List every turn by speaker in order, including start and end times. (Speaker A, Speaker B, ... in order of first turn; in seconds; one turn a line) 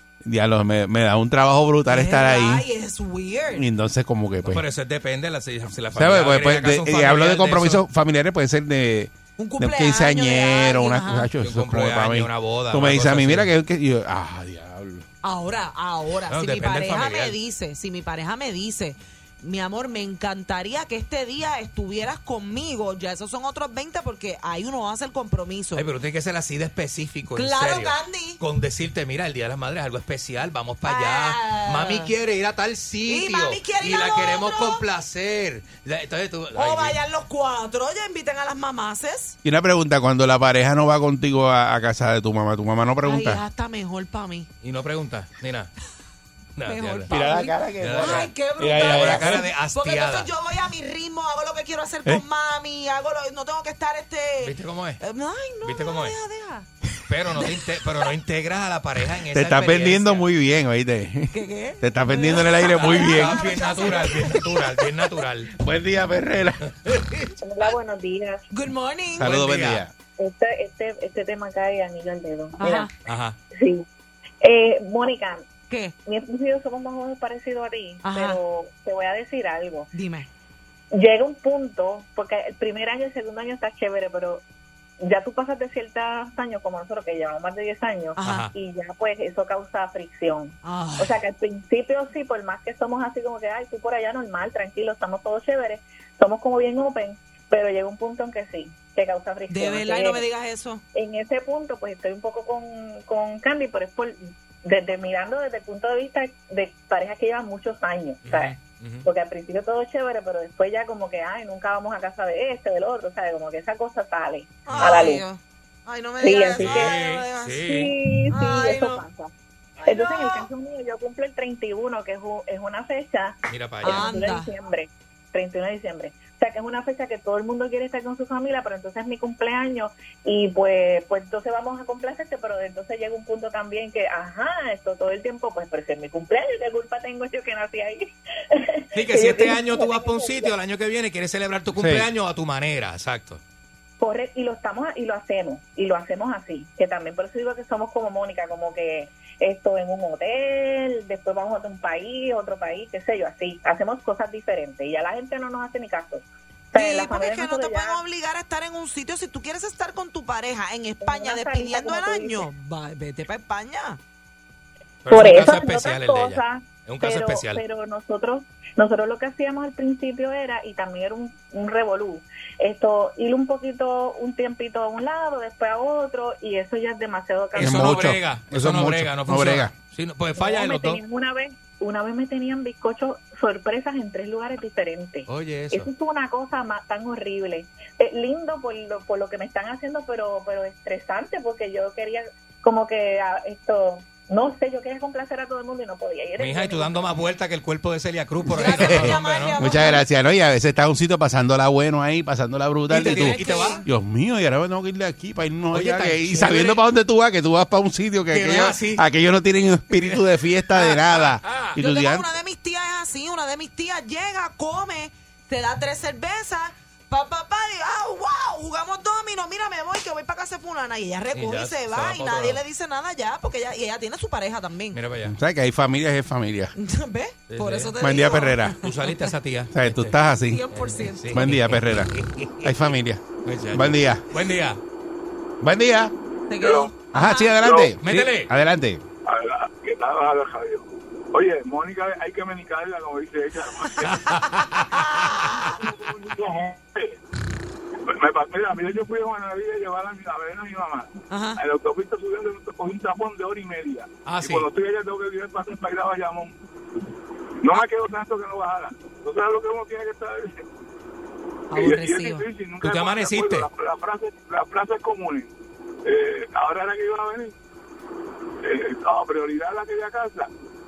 Speaker A: 0.2-2.6
Speaker B: 1.9-3.6
Speaker A: 3.6-4.6
Speaker C: 4.4-7.8
Speaker A: 6.0-15.1
Speaker B: 9.4-11.3
Speaker C: 11.4-13.5
Speaker B: 15.2-25.8
Speaker C: 16.3-17.4
Speaker C: 25.8-37.0
Speaker B: 27.4-28.4
Speaker B: 30.9-32.1
Speaker B: 33.1-34.8
Speaker B: 36.5-39.4
Speaker A: 39.4-43.4
Speaker B: 43.0-44.5
Speaker C: 44.6-45.7
Speaker C: 46.6-47.1
Speaker B: 46.7-56.7
Speaker A: 47.1-49.4
Speaker C: 47.8-50.3
Speaker C: 54.4-55.0
Speaker C: 55.6-56.2
Speaker C: 57.1-60.2
Speaker A: 59.3-63.6
Speaker B: 61.3-64.6
Speaker C: 62.6-65.5
Speaker A: 65.6-66.6
Speaker C: 66.8-67.3
Speaker D: 67.4-68.4
Speaker B: 68.5-69.3
Speaker A: 69.2-69.9
Speaker C: 69.2-69.8
Speaker D: 70.2-72.9
Speaker B: 72.6-72.9
Speaker C: 73.0-73.4
Speaker D: 73.5-73.8
Speaker D: 74.4-75.5
Speaker B: 75.7-76.0
Speaker D: 76.1-79.9
Speaker B: 78.0-78.4
Speaker B: 79.9-80.3
Speaker D: 80.9-84.4
Speaker D: 85.0-100.2
Speaker B: 88.2-88.5
Speaker C: 88.2-88.5
Speaker B: 90.6-91.2
Speaker B: 99.5-100.8
Speaker D: 100.9-108.5
Speaker C: 108.2-109.1
Speaker D: 109.0-115.2
Speaker B: 114.7-117.7
Speaker C: 114.7-115.0
Speaker D: 116.2-117.0
Speaker C: 116.6-117.9
Speaker D: 117.7-119.3
Speaker B: 118.3-119.0
Speaker D: 119.8-140.5
Speaker B: 119.9-120.5
Speaker C: 123.5-124.1
Speaker B: 123.8-124.5
Speaker C: 138.9-143.4
Speaker A: 141.7-142.1
Speaker D: 144.0-158.0
Speaker B: 156.7-164.0
Speaker D: 161.0-162.5
Speaker C: 165.1-167.6
Speaker D: 165.1-178.1
Speaker C: 177.5-181.0
Speaker A: 177.6-179.7
Speaker D: 180.4-197.1
Speaker C: 185.3-185.9
Speaker C: 196.4-199.6
Speaker B: 198.5-200.0
Speaker A: 198.7-212.3
Speaker C: 202.9-203.8
Speaker B: 203.0-203.9
Speaker C: 205.7-206.8
Speaker C: 208.3-209.0
Speaker C: 210.8-211.8
Speaker B: 211.8-225.0
Speaker C: 221.3-222.6
Speaker C: 224.9-225.4
Speaker A: 225.3-226.7
Speaker B: 226.8-228.8
Speaker C: 227.5-227.9
Speaker A: 228.0-228.8
Speaker C: 228.8-230.2
Speaker A: 229.7-230.6
Speaker B: 230.5-231.4
Speaker C: 230.7-232.9
Speaker A: 231.3-234.2
Speaker C: 233.4-234.8
Speaker A: 235.6-236.1
Speaker B: 236.5-237.6
Speaker E: 236.6-237.0
Speaker A: 237.1-239.0
Speaker E: 237.6-237.9
Speaker C: 238.0-238.5
Speaker E: 239.2-244.3
Speaker C: 244.0-245.7
Speaker B: 244.7-245.7
Speaker E: 245.8-247.2
Speaker E: 248.1-256.6
Speaker B: 251.3-251.6
Speaker C: 254.2-254.7
Speaker E: 257.6-260.6
Speaker B: 261.7-262.5
Speaker E: 261.7-265.5
Speaker C: 262.8-263.7
Speaker E: 266.1-267.6
Speaker E: 268.6-270.5